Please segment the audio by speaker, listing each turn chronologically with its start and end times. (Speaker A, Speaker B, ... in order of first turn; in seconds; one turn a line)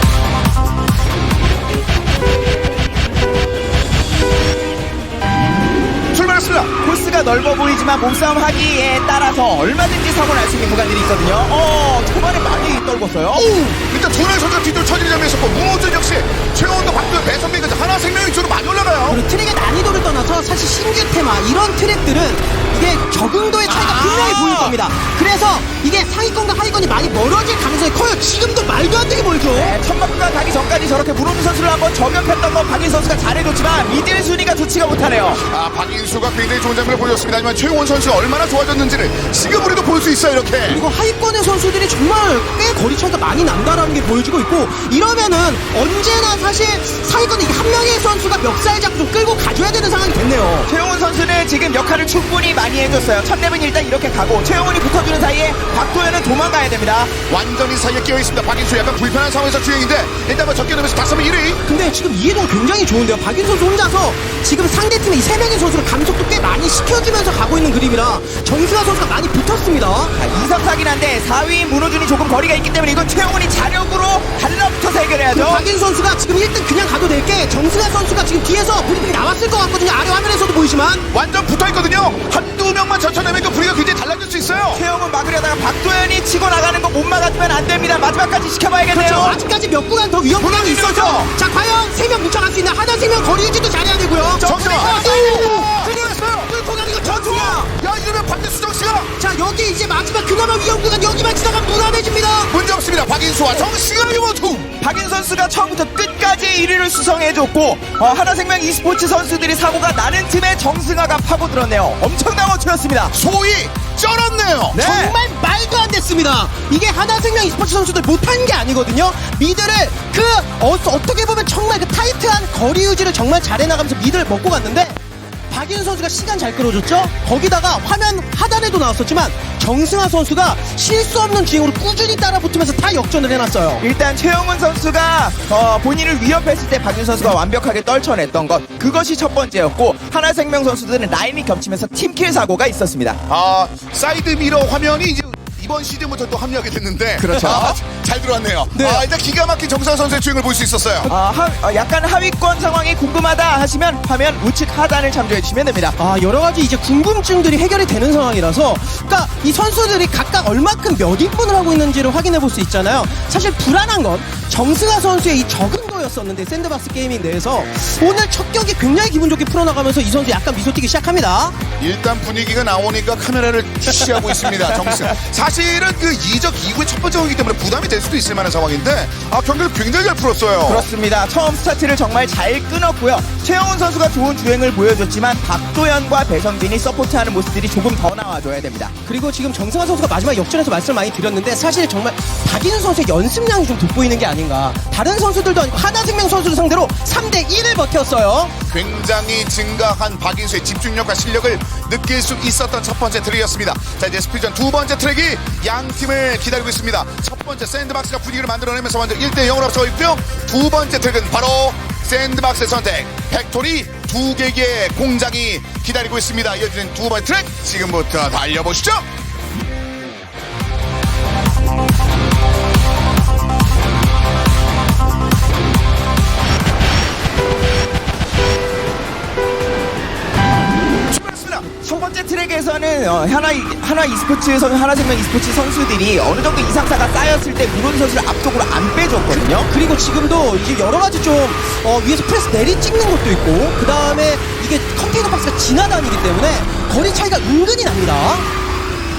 Speaker A: 6.1-6.7
Speaker B: 6.8-13.4
Speaker C: 13.3-13.8
Speaker A: 13.6-19.2
Speaker C: 19.1-29.8
Speaker B: 23.7-24.7
Speaker B: 29.6-35.4
Speaker A: 35.4-40.8
Speaker C: 40.7-50.7
Speaker B: 50.7-57.2
Speaker A: 57.3-61.6
Speaker C: 61.7-70.1
Speaker B: 70.2-75.7
Speaker C: 75.3-81.1
Speaker A: 81.1-84.8
Speaker B: 84.7-89.4
Speaker C: 88.9-97.7
Speaker A: 90.4-91.3
Speaker B: 94.3-95.5
Speaker A: 94.4-99.1
Speaker C: 99.2-102.5
Speaker A: 102.5-104.7
Speaker B: 104.8-113.1
Speaker A: 113.1-115.0
Speaker B: 114.7-115.2
Speaker C: 114.8-125.0
Speaker C: 125.5-133.8
Speaker B: 133.8-143.2
Speaker A: 143.3-151.1
Speaker B: 147.2-147.8
Speaker C: 147.4-147.6
Speaker C: 148.8-149.0
Speaker B: 151.1-156.0
Speaker C: 156.0-171.6
Speaker A: 171.8-180.9
Speaker B: 180.7-188.9
Speaker C: 189.1-198.5
Speaker A: 198.7-219.1
Speaker A: 231.1-231.7
Speaker B: 231.7-239.7
Speaker C: 239.3-248.5